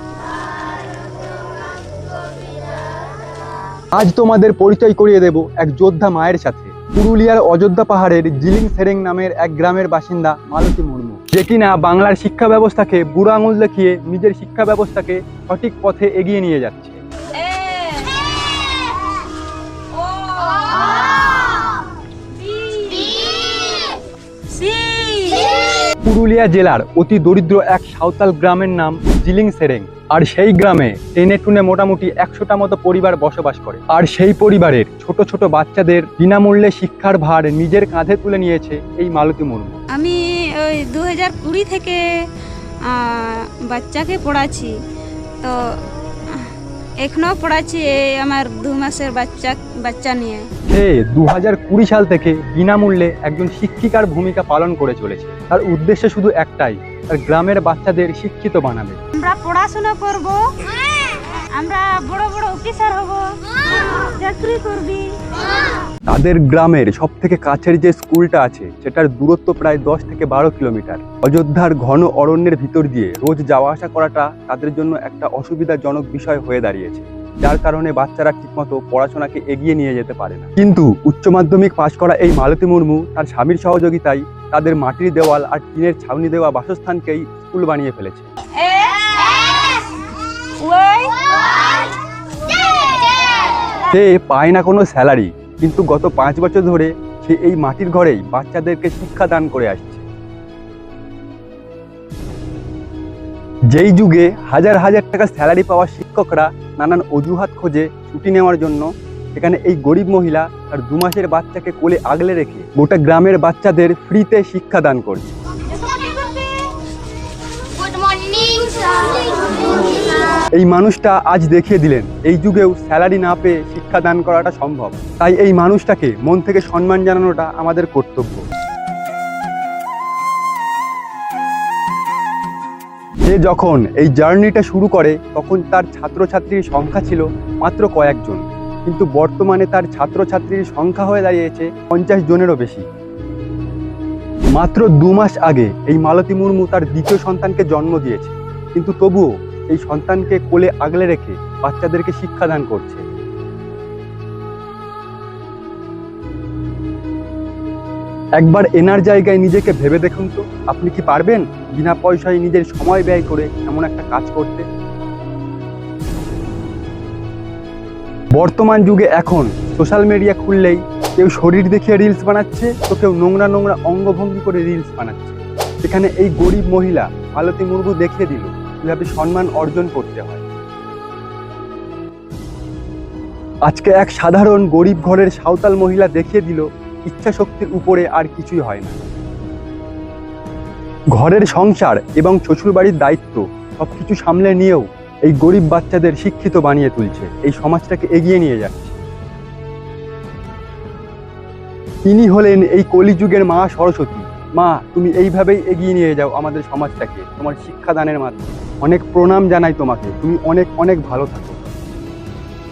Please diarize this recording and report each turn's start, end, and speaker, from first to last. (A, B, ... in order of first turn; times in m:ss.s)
0:03.9-0:17.0 A
0:17.4-0:18.3 B
0:20.0-0:21.5 B
0:22.4-0:23.9 B
0:24.5-0:25.7 B
0:26.0-0:39.8 A
0:39.9-0:42.0 B
0:42.9-0:44.7 B
0:47.0-0:50.5 B
0:50.7-0:59.0 A
0:59.1-1:05.0 B
1:06.1-1:28.3 A
1:28.7-1:29.7 B
1:30.6-1:31.2 B
1:33.9-1:40.0 A
1:43.7-1:55.4 A
1:58.3-1:58.7 B
2:00.6-2:08.4 A
2:13.3-2:22.8 A
2:24.6-2:33.0 A
2:38.4-2:44.6 A
2:48.3-3:00.4 A
3:03.7-3:09.0 A
3:11.2-3:19.0 A
3:22.1-3:31.7 A